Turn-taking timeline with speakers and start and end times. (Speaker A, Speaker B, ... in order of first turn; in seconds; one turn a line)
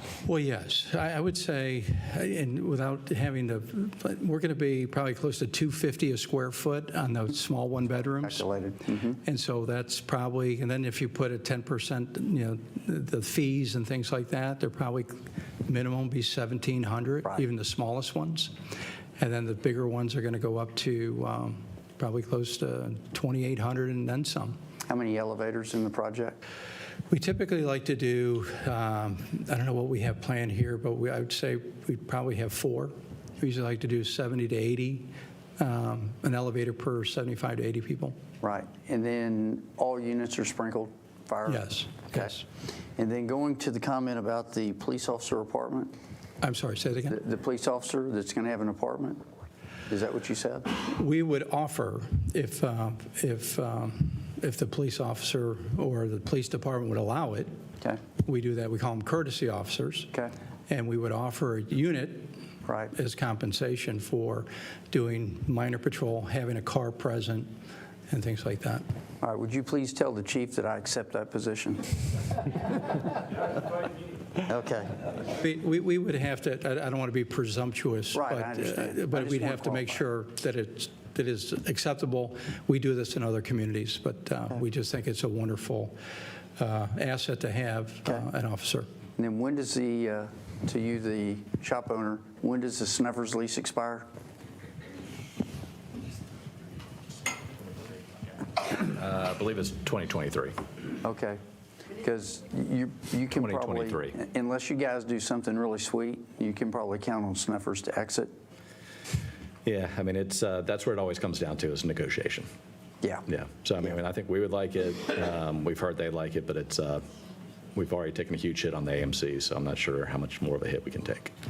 Speaker A: 0.2-8.4
Speaker B: 8.2-9.2
Speaker A: 9.2-18.5
Speaker A: 19.2-24.6
Speaker B: 24.9-26.4
Speaker A: 27.1-38.2
Speaker B: 38.4-42.4
Speaker A: 41.5-42.4
Speaker B: 43.0-45.9
Speaker A: 46.4-47.2
Speaker B: 47.1-49.2
Speaker B: 49.9-50.7
Speaker A: 50.8-57.5
Speaker A: 58.2-60.1
Speaker A: 60.7-62.3
Speaker B: 62.7-62.9
Speaker A: 62.9-67.5
Speaker A: 68.1-68.8
Speaker B: 69.2-72.0
Speaker B: 74.5-75.0
Speaker A: 75.3-86.0
Speaker B: 78.1-80.0
Speaker A: 86.6-88.9
Speaker B: 89.2-94.1
Speaker C: 98.8-100.6
Speaker B: 101.0-101.4
Speaker B: 102.0-108.3
Speaker C: 103.3-104.1
Speaker C: 109.7-112.5
Speaker C: 113.3-117.0
Speaker C: 117.8-121.3